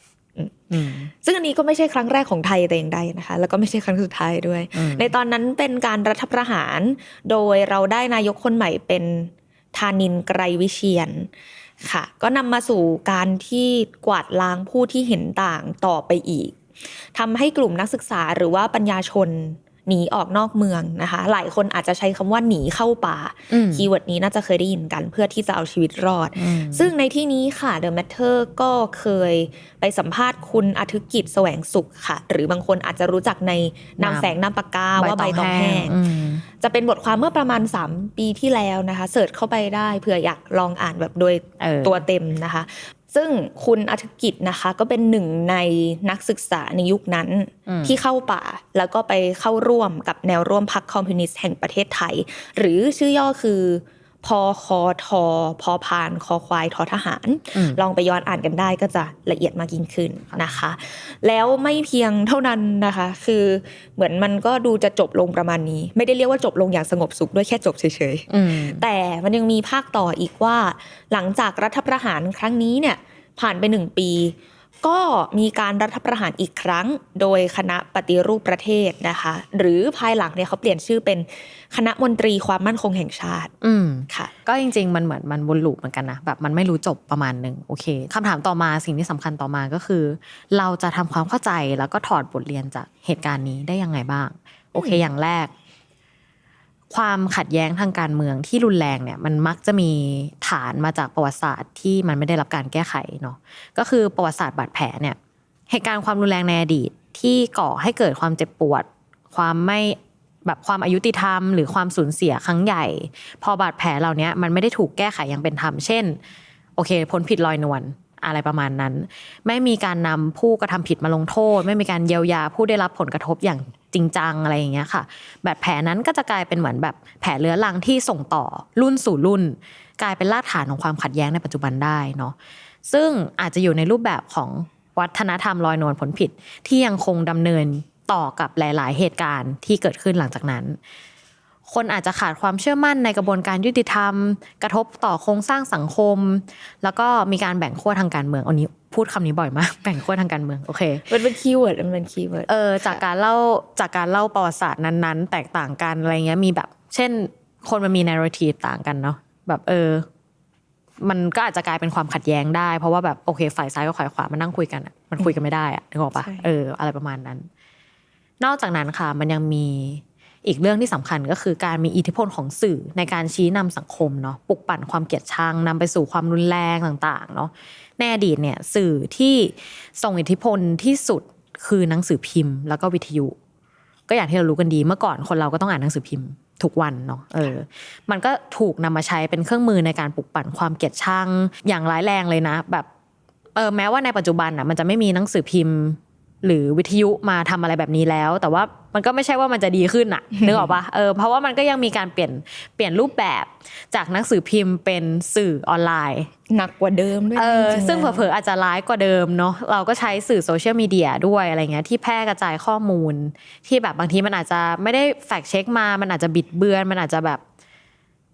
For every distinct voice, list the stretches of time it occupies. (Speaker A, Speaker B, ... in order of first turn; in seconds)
Speaker A: 0.4-36.0, 36.6-83.5, 94.8-95.0, 151.1-153.0, 166.2-166.5, 200.4-200.8, 206.5-208.3
Speaker B: 0.7-1.1, 4.7-5.1, 23.5-23.9, 26.4-26.9, 34.0-34.4, 35.0-36.4, 41.6-42.0, 47.7-48.0, 57.5-57.8, 68.3-68.8, 83.6-95.5, 96.9-105.2, 105.7-116.2, 116.8-140.8, 141.7-151.1, 152.5-160.1, 161.0-167.5, 168.4-183.3, 184.1-192.9, 193.6-206.3, 207.3-217.4